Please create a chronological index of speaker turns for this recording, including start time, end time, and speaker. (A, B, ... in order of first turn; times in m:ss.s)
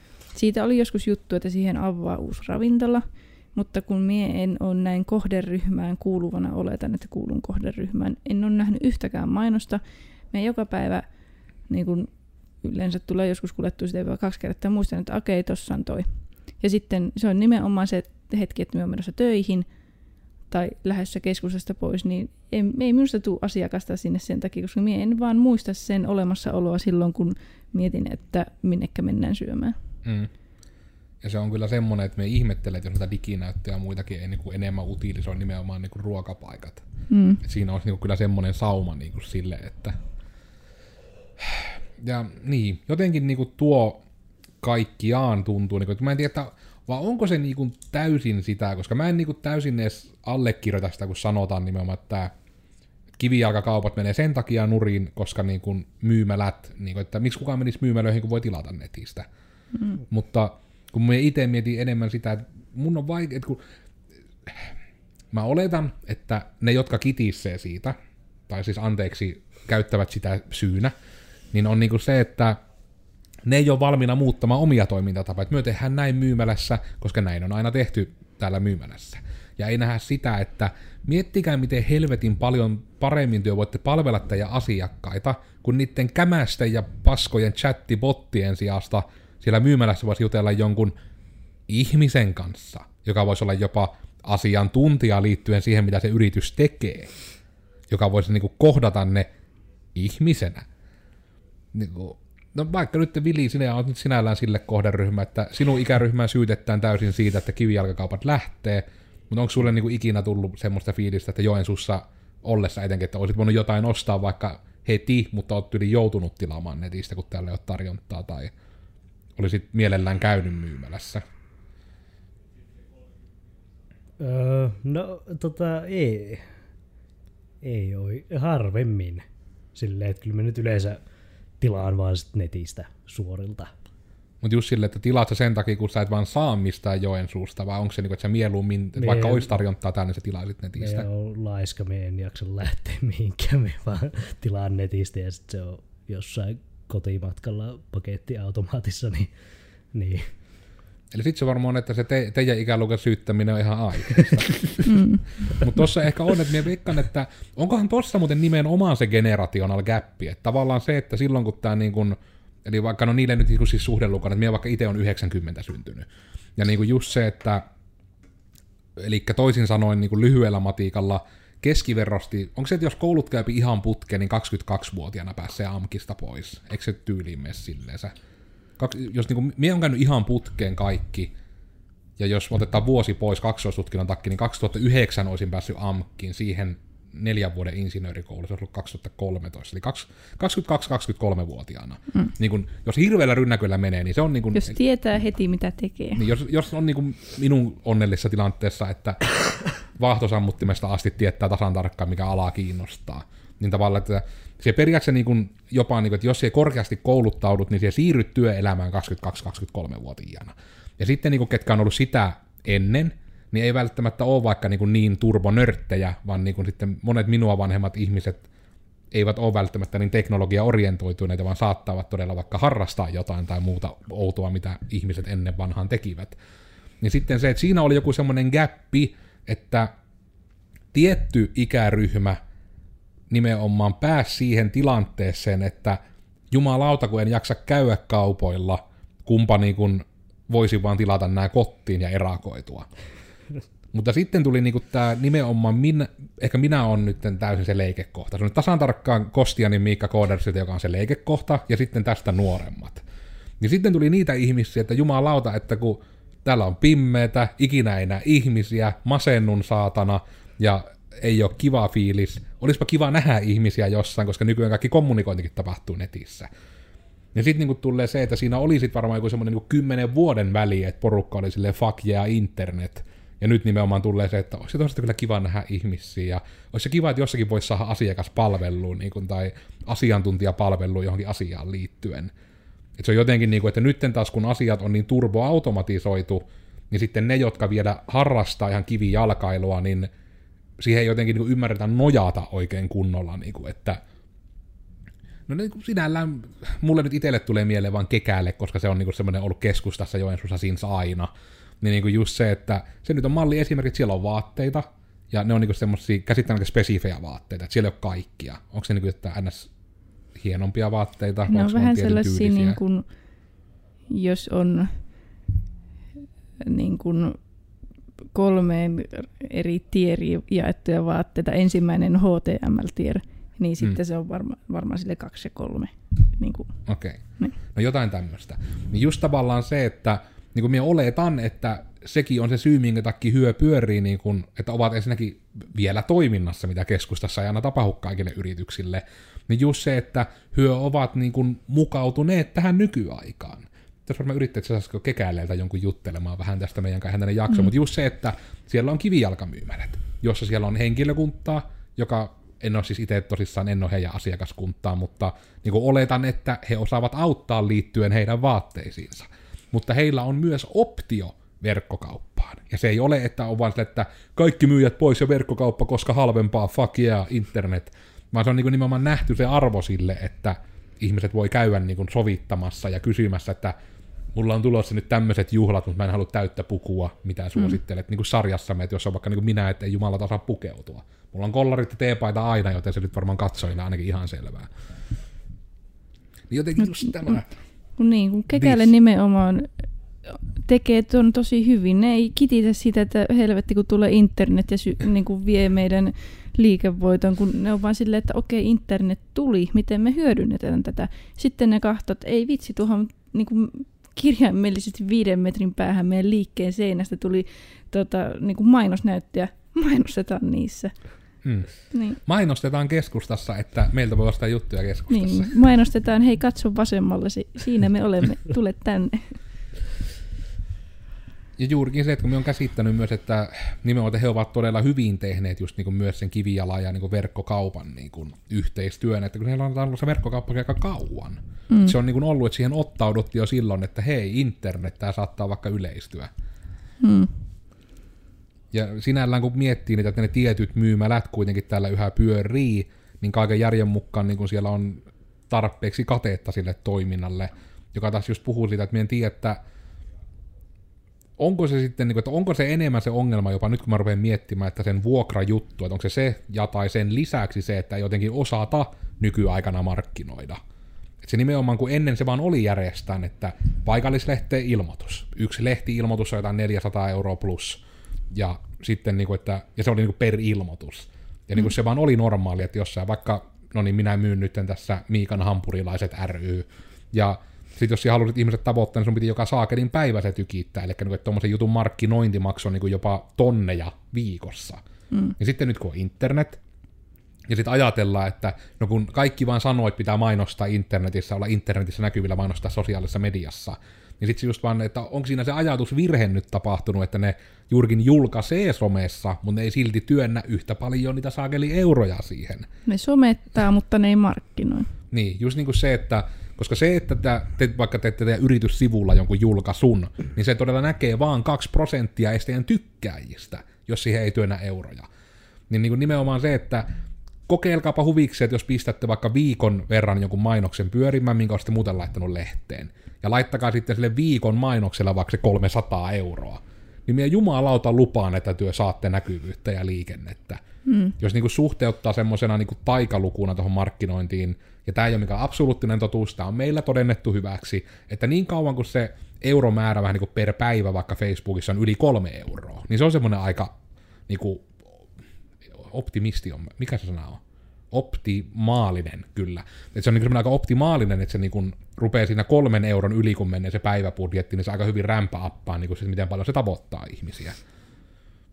0:00.3-0:09.8 A
0:10.3-0:11.0 A
0:11.7-0:12.1 A
0:12.6-0:19.7 A
0:20.5-0:29.8 A
0:30.0-0:30.3 B
0:31.2-0:36.8 B
0:37.1-0:37.4 A
0:37.4-0:40.0 B
0:41.4-0:44.0 B
0:44.6-0:52.3 B
0:53.2-0:59.3 B
0:59.7-1:00.0 A
1:00.1-1:03.6 B
1:05.3-1:08.0 B
1:08.5-1:10.9 B
1:11.5-1:12.6 B
1:13.5-1:31.0 B
1:31.7-1:37.1 B
1:37.9-1:39.3 B
1:40.0-1:40.7 B
1:41.7-1:58.5 B
1:59.4-2:01.2 B
2:04.2-2:06.5 C
2:07.6-2:11.0 C
2:11.6-2:13.7 C
2:14.4-2:21.1 B
2:19.0-2:19.6 C
2:20.8-2:29.3 C
2:29.9-2:30.3 C
2:31.1-2:34.9 B
2:34.9-2:35.3 A
2:35.5-2:47.7 B
2:49.0-2:58.1 B
2:58.8-3:01.3 B
3:02.2-3:14.8 B
3:14.6-3:16.2 A
3:16.2-3:19.2 B
3:20.0-3:38.5 B
3:39.1-3:46.4 B
3:47.0-3:49.9 B
3:50.9-3:52.4 B
3:53.3-3:56.0 B
3:56.5-4:02.9 B
4:03.9-4:13.0 B
4:13.6-4:26.5 B
4:27.4-4:42.3 B
4:43.0-4:50.1 B
4:50.8-4:54.0 B
4:55.5-5:09.7 B
5:10.4-5:12.8 B
5:11.5-5:13.1 A
5:14.1-5:15.0 A
5:16.6-5:17.4 A
5:18.3-5:26.8 A
5:26.9-6:13.8 B
6:14.3-6:24.7 B
6:26.5-6:27.6 B
6:28.0-6:29.7 A
6:28.5-6:28.9 B
6:30.3-6:51.0 A
6:51.4-6:55.5 B
6:51.9-6:52.2 A
6:55.1-6:59.4 A
7:01.6-7:16.3 B
7:11.7-7:12.0 A
7:17.0-7:17.4 A
7:18.7-7:29.6 B
7:31.4-7:40.6 B
7:41.2-8:04.8 B
8:05.1-8:05.4 A
8:05.4-8:06.6 B
8:07.5-8:22.7 B
8:22.9-8:24.9 A
8:25.1-8:35.1 B
8:35.7-8:36.9 B
8:37.5-8:50.6 B
8:50.9-8:51.2 A
8:51.2-9:03.7 B
9:04.3-9:04.8 B
9:05.8-9:17.6 B